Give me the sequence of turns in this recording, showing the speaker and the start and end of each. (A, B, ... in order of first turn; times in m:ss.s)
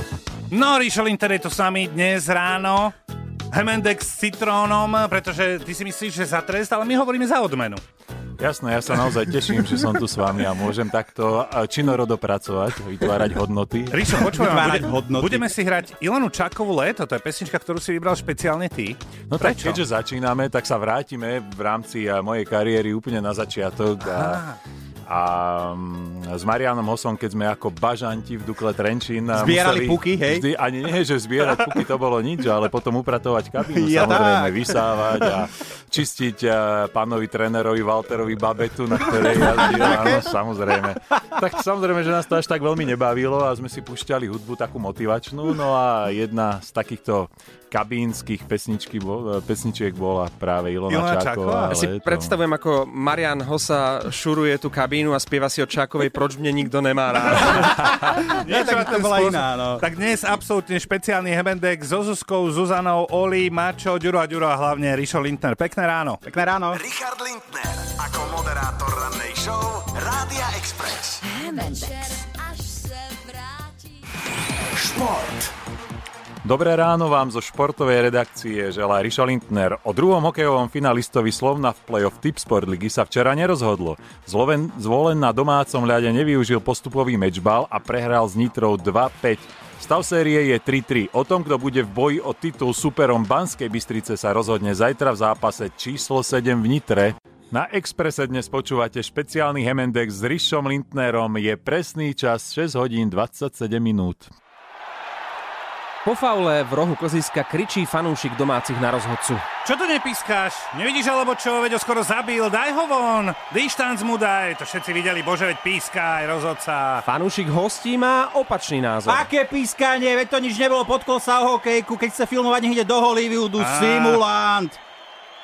0:00.5-0:02.9 A
0:03.5-0:07.8 A
0:08.4-0:14.2 B
0:13.9-0:19.8 A
0:14.3-0:15.5 C
0:19.3-0:24.4 B
0:24.0-0:24.6 A
0:25.1-0:52.3 B
0:29.3-0:30.4 C
0:33.7-0:35.3 C
0:39.0-0:40.3 C
0:50.9-0:51.8 A
0:51.8-0:57.7 D
0:58.4-0:59.8 C
0:58.4-1:06.2 A
1:06.2-1:06.8 C
1:06.7-1:11.2 E
1:11.4-1:13.8 F
1:14.7-1:15.5 E
1:16.4-1:44.3 B
1:46.0-1:49.5 D
1:49.6-1:57.0 A
1:57.0-1:59.2 D
1:59.0-2:04.8 C
2:03.6-2:04.2 A